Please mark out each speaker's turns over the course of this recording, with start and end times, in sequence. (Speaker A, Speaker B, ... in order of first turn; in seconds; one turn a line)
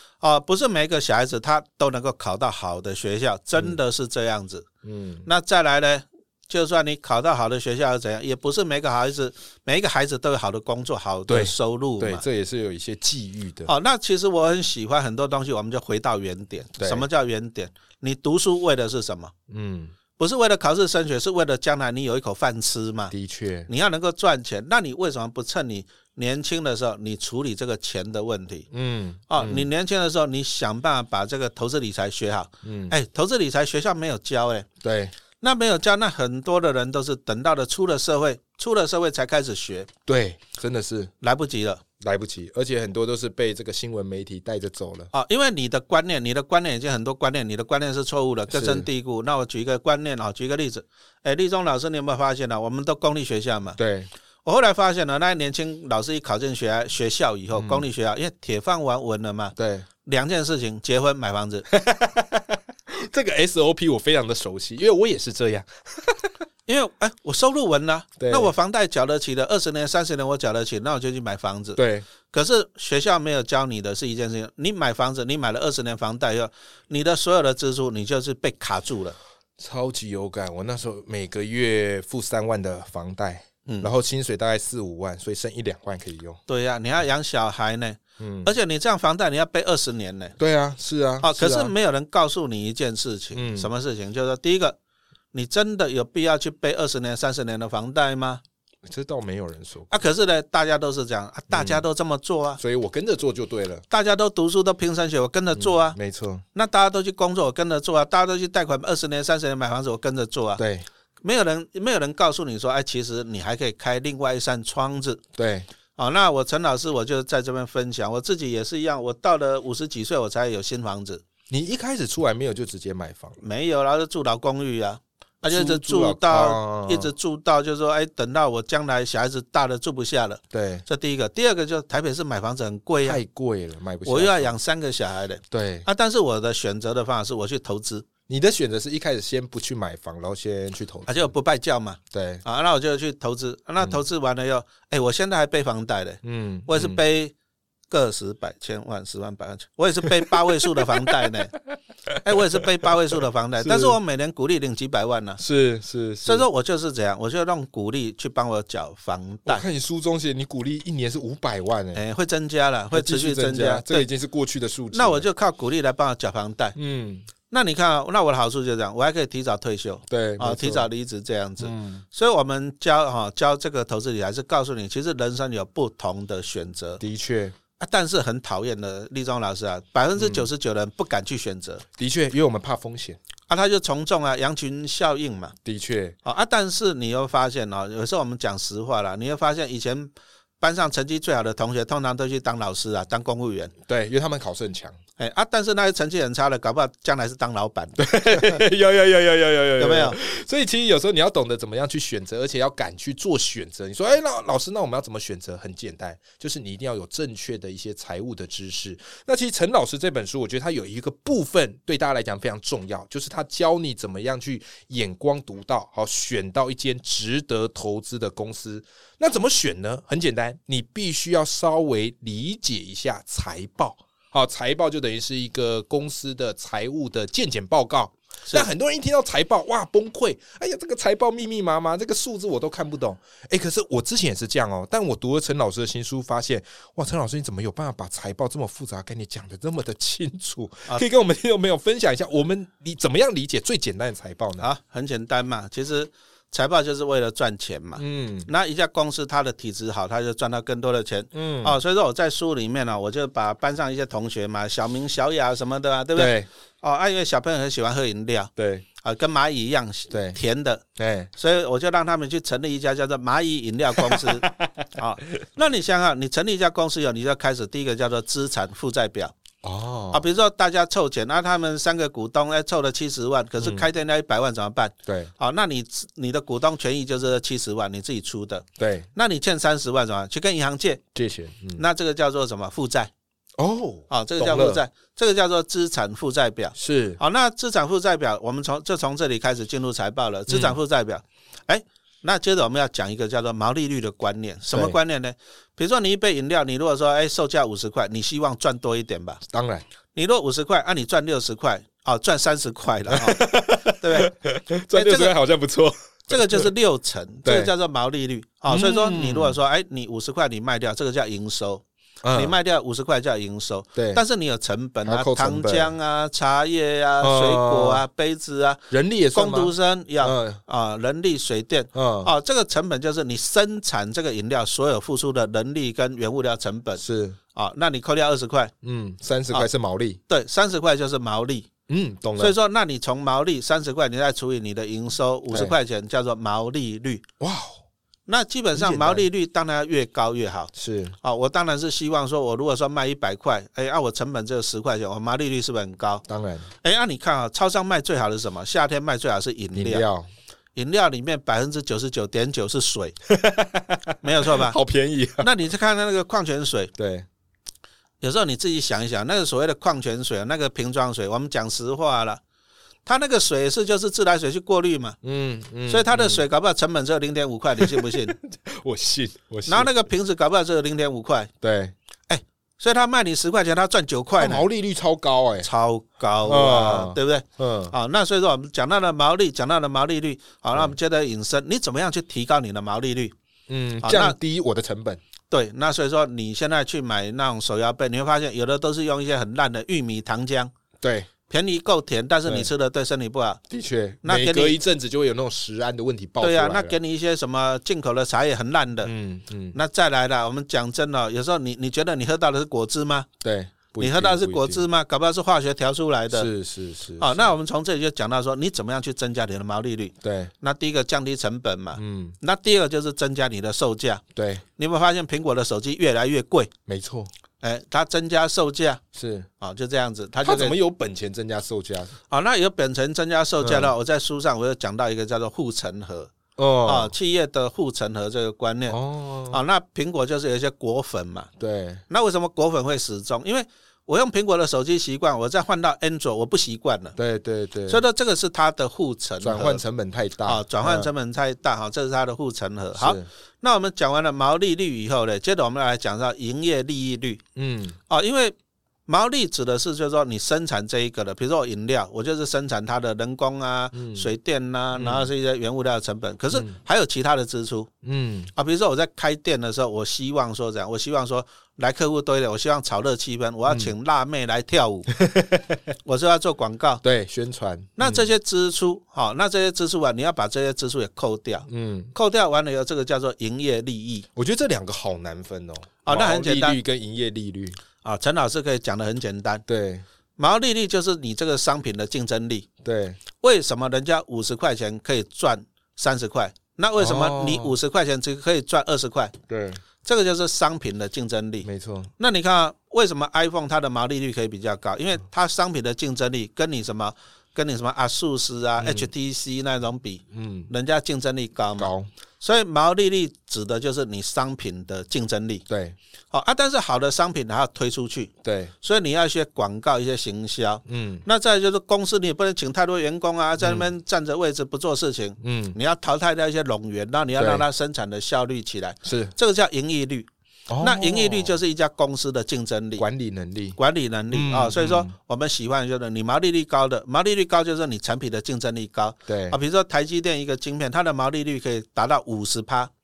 Speaker A: 0.2-4.7
Speaker B: 4.8-5.3
Speaker A: 5.2-12.2
Speaker B: 11.3-13.7
Speaker A: 13.7-19.3
Speaker B: 16.8-17.1
Speaker B: 19.5-19.9
Speaker A: 20.2-23.1
Speaker B: 23.1-23.7
Speaker A: 23.7-28.7
Speaker B: 28.7-29.7
Speaker A: 29.3-34.7
Speaker B: 32.6-33.0
Speaker B: 34.8-35.1
Speaker A: 35.4-39.9
Speaker B: 40.1-41.1
Speaker A: 41.2-41.8
Speaker B: 42.0-45.1
Speaker A: 45.1-53.8
Speaker B: 48.5-48.9
Speaker B: 53.8-54.1
Speaker A: 54.4-61.7
Speaker B: 57.5-57.8
Speaker B: 59.5-59.9
Speaker B: 61.7-66.3
Speaker A: 66.7-71.8
Speaker B: 68.2-68.5
Speaker B: 71.8-72.0
Speaker A: 72.3-79.2
Speaker B: 79.6-86.4
Speaker A: 83.7-83.9
Speaker A: 86.5-90.3
Speaker B: 88.2-88.5
Speaker B: 90.4-91.7
Speaker A: 91.2-94.8
Speaker B: 93.3-93.7
Speaker A: 95.3-98.4
Speaker B: 98.8-100.0
Speaker A: 99.9-102.6
Speaker B: 101.5-101.8
Speaker B: 102.6-103.8
Speaker A: 103.9-106.0
Speaker B: 105.5-106.4
Speaker A: 106.5-110.6
Speaker B: 110.6-110.8
Speaker A: 111.2-115.2
Speaker B: 115.4-115.7
Speaker A: 116.0-121.2
Speaker B: 121.5-123.4
Speaker A: 123.4-133.2
Speaker B: 125.5-127.1
Speaker B: 130.5-130.8
Speaker B: 133.0-134.5
Speaker A: 134.0-138.1
Speaker B: 135.5-135.9
Speaker B: 138.3-141.3
Speaker A: 141.1-147.3
Speaker B: 142.1-142.4
Speaker B: 146.2-147.0
Speaker A: 147.9-151.5
Speaker A: 152.2-155.4
Speaker B: 153.6-154.0
Speaker B: 155.4-156.4
Speaker A: 156.2-159.6
Speaker B: 159.4-162.0
Speaker A: 161.9-164.1
Speaker B: 162.9-165.3
Speaker A: 164.9-166.7
Speaker B: 166.8-167.3
Speaker A: 167.5-177.0
Speaker B: 170.1-170.9
Speaker B: 171.6-172.0
Speaker B: 177.0-177.5
Speaker A: 177.8-181.8
Speaker B: 180.2-180.5
Speaker B: 182.0-183.2
Speaker A: 183.5-185.5
Speaker B: 185.6-186.2
Speaker A: 186.2-193.7
Speaker B: 193.9-194.9
Speaker A: 195.2-198.6
Speaker B: 198.0-244.7
Speaker A: 199.8-200.2
Speaker A: 244.6-258.5
Speaker B: 247.9-248.5
Speaker B: 251.3-251.8
Speaker B: 256.1-256.5
Speaker B: 258.6-258.8
Speaker A: 259.0-260.8
Speaker B: 260.1-260.4
Speaker B: 261.0-261.3
Speaker A: 261.4-269.3
Speaker B: 264.0-264.6
Speaker B: 269.6-270.2
Speaker A: 270.1-281.0
Speaker B: 273.6-273.9
Speaker B: 275.1-275.3
Speaker B: 278.8-279.1
Speaker B: 281.1-281.8
Speaker A: 281.8-283.1
Speaker B: 283.6-284.8
Speaker A: 284.1-299.4
Speaker B: 286.7-287.2
Speaker B: 290.5-290.8
Speaker B: 294.7-295.0
Speaker B: 299.5-299.8
Speaker A: 300.1-303.5
Speaker B: 303.1-306.7
Speaker A: 304.0-304.3
Speaker A: 304.9-305.3
Speaker A: 306.3-327.0
Speaker B: 307.4-307.7
Speaker B: 308.7-309.6
Speaker B: 312.2-312.6
Speaker B: 313.9-314.2
Speaker B: 315.0-315.9
Speaker B: 317.2-318.0
Speaker B: 318.9-320.6
Speaker B: 321.9-322.3
Speaker B: 327.0-327.4
Speaker A: 327.5-328.7
Speaker B: 328.8-330.2
Speaker A: 330.3-331.7
Speaker B: 331.9-332.5
Speaker A: 332.4-337.2
Speaker B: 337.4-337.8
Speaker A: 338.3-340.7
Speaker B: 338.7-339.2
Speaker B: 340.7-341.1
Speaker A: 341.2-346.2
Speaker B: 346.3-346.7
Speaker A: 346.8-350.1
Speaker B: 349.7-350.3
Speaker A: 350.7-353.1
Speaker B: 353.3-355.5
Speaker A: 354.2-354.8
Speaker A: 355.4-356.9
Speaker B: 357.0-357.3
Speaker A: 358.2-362.4
Speaker A: 363.0-365.2
Speaker B: 365.2-366.4
Speaker A: 365.9-368.4
Speaker B: 367.8-369.9
Speaker A: 369.6-371.5
Speaker B: 371.6-371.9
Speaker A: 372.3-374.6
Speaker B: 374.4-375.7
Speaker A: 375.6-383.3
Speaker B: 376.4-377.9
Speaker B: 383.7-385.2
Speaker A: 384.0-384.4
Speaker A: 385.5-390.7
Speaker B: 391.0-391.3
Speaker A: 391.5-393.6
Speaker B: 393.7-397.0
Speaker A: 394.2-394.8
Speaker A: 396.4-399.1
Speaker B: 399.0-399.8
Speaker A: 399.7-403.3
Speaker B: 403.4-404.8
Speaker A: 404.0-406.5
Speaker B: 406.3-407.4
Speaker A: 407.2-414.2
Speaker B: 410.2-410.5
Speaker B: 411.9-412.4
Speaker B: 414.3-414.6
Speaker A: 414.8-416.7
Speaker B: 416.9-417.3
Speaker A: 417.6-419.0
Speaker B: 419.1-419.5
Speaker A: 419.6-420.8
Speaker B: 420.4-422.1
Speaker A: 422.3-426.3
Speaker B: 423.6-423.9
Speaker B: 426.6-427.1
Speaker A: 426.8-429.0
Speaker B: 428.9-429.6
Speaker A: 429.5-431.5
Speaker B: 431.6-432.0
Speaker A: 432.1-437.1
Speaker B: 437.1-438.0
Speaker A: 437.9-439.8
Speaker B: 439.4-441.1
Speaker A: 440.4-447.4
Speaker B: 442.9-443.2
Speaker B: 447.6-448.0
Speaker A: 448.1-448.5
Speaker A: 449.1-457.9
Speaker B: 453.9-454.3
Speaker B: 454.9-455.3
Speaker B: 458.0-458.5
Speaker A: 458.5-465.1
Speaker B: 465.1-465.8
Speaker A: 466.0-467.0
Speaker B: 467.0-468.3
Speaker A: 468.0-474.3
Speaker B: 471.7-472.1
Speaker B: 474.4-477.8
Speaker A: 476.0-476.8
Speaker A: 478.0-479.6
Speaker B: 479.7-480.0
Speaker A: 480.4-482.7
Speaker B: 482.8-483.2
Speaker A: 483.4-489.3
Speaker B: 487.0-487.8
Speaker B: 489.5-489.8
Speaker A: 490.0-491.7
Speaker B: 491.6-492.1
Speaker A: 492.2-505.6
Speaker B: 498.8-499.1
Speaker B: 500.3-500.7
Speaker B: 501.8-502.1
Speaker B: 505.7-505.9
Speaker A: 506.3-520.3
Speaker B: 508.4-508.7
Speaker B: 510.9-511.2
Speaker B: 513.6-513.9
Speaker B: 515.4-515.8
Speaker B: 517.4-517.6
Speaker B: 519.0-519.3
Speaker B: 520.7-521.6
Speaker A: 520.8-523.0
Speaker B: 523.0-523.8
Speaker A: 523.8-532.9
Speaker B: 524.3-525.1
Speaker B: 529.3-529.6